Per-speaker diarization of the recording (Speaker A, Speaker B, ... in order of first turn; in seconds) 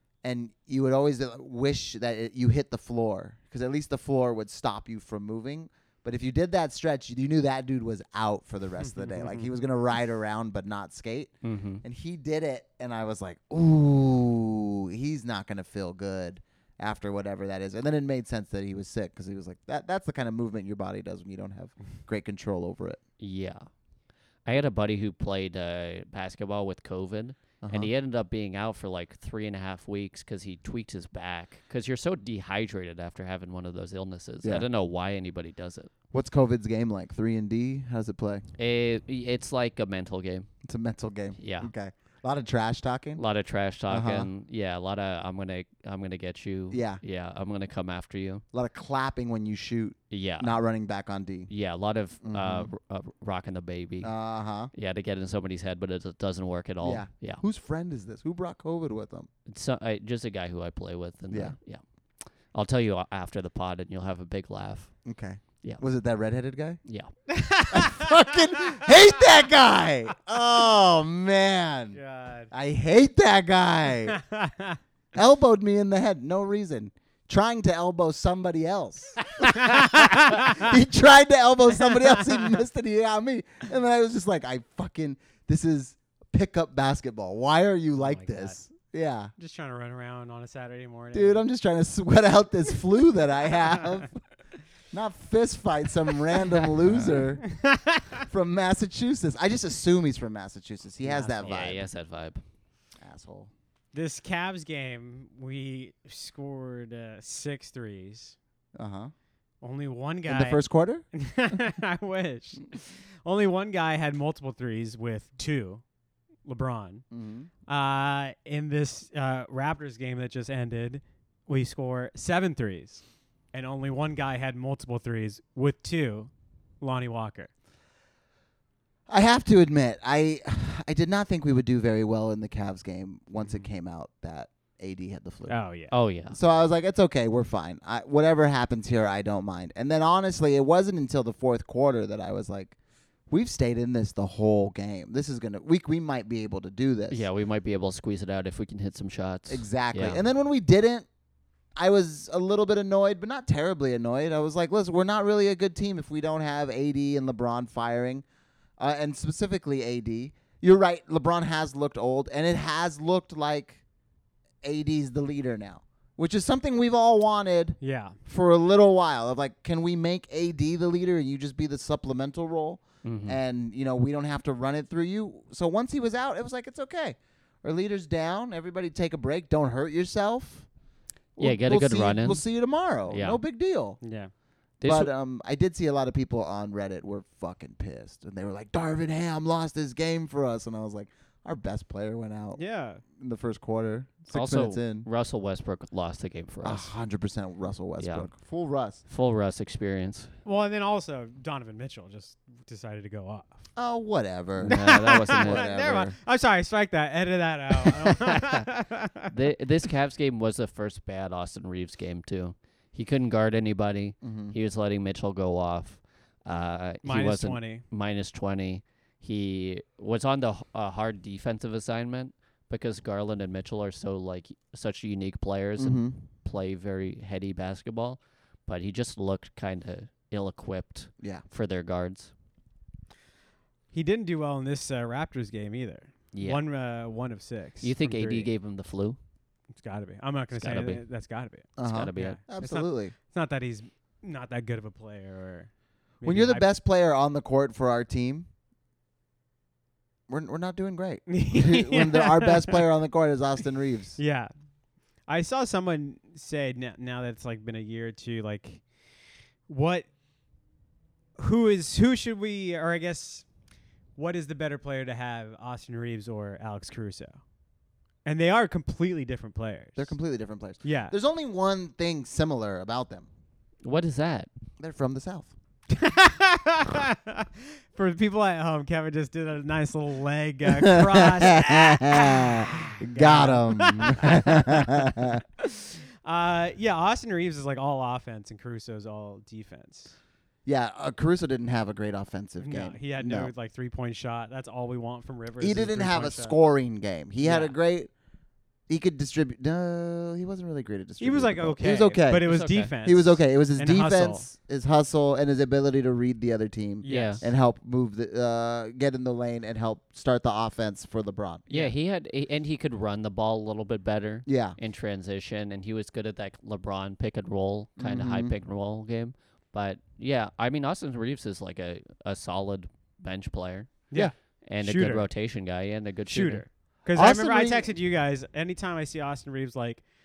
Speaker A: 0.2-23.0, 27.6-27.9, 36.1-38.4, 40.6-43.2, 43.9-44.3, 46.7-47.0, 48.5-51.5, 52.2-52.7, 54.0-54.7, 56.8-59.3, 61.3-61.6, 65.0-66.8, 67.7-72.0, 72.5-74.2, 75.1-89.3, 91.1-94.2, 94.9-97.6, 98.3-101.9, 103.0-103.5, 108.8-109.1, 110.3-111.0, 117.1-117.5, 129.1-135.6, 136.3-142.8, 143.3-147.2, 149.5-151.1, 151.8-158.2, 158.8-163.8, 164.6-180.7, 181.4-184.0, 184.8-192.6, 193.1-195.1, 196.6-199.0, 203.8-206.2, 214.2-214.6, 225.8-226.2, 241.8-243.1, 246.2-248.5, 250.3-254.2, 270.0-273.3, 274.8-275.5, 280.8-285.4, 290.7-293.5, 295.6-298.1, 298.9-302.5, 303.0-311.7, 314.5-314.8, 318.0-318.6, 327.1-327.9
Speaker B: 9.0-9.4, 67.3-68.2, 71.9-72.5, 74.1-74.8, 79.4-80.7, 81.9-82.5, 88.0-88.6, 89.4-91.5, 97.5-98.2, 101.0-101.6, 103.9-108.4, 109.6-115.8, 116.5-117.0, 117.7-127.5, 135.5-135.9, 167.8-168.2, 184.0-184.3, 192.6-193.0, 200.4-203.6, 204.6-209.3, 217.0-217.8, 233.9-238.5, 239.8-245.7, 246.2-246.7, 251.3-252.8, 254.2-254.5, 255.3-258.9, 259.7-260.1, 261.4-263.5, 264.2-267.4, 268.2-270.2, 270.8-271.2, 275.9-290.2, 292.6-296.6, 297.4-297.8, 301.2-304.5, 307.0-307.5, 324.1-325.3, 326.3-330.0
Speaker C: 11.4-11.8, 23.2-23.7, 24.5-35.9, 38.6-40.5, 41.4-41.7, 43.2-48.4, 50.1-50.6, 51.5-54.1, 54.7-57.4, 59.5-61.8, 62.5-65.0, 66.9-67.1, 101.4-102.4, 135.9-136.4, 147.1-150.2, 173.0-173.4, 181.4-182.4, 183.1-183.4, 184.8-185.1, 194.3-196.9, 198.0-198.3, 199.1-200.3, 204.6-205.7, 209.3-232.3, 236.3-236.6, 237.8-239.2, 240.6-241.0, 241.8-242.4, 273.8-274.5, 302.4-302.9, 307.1-307.4, 311.7-324.1, 324.6-326.6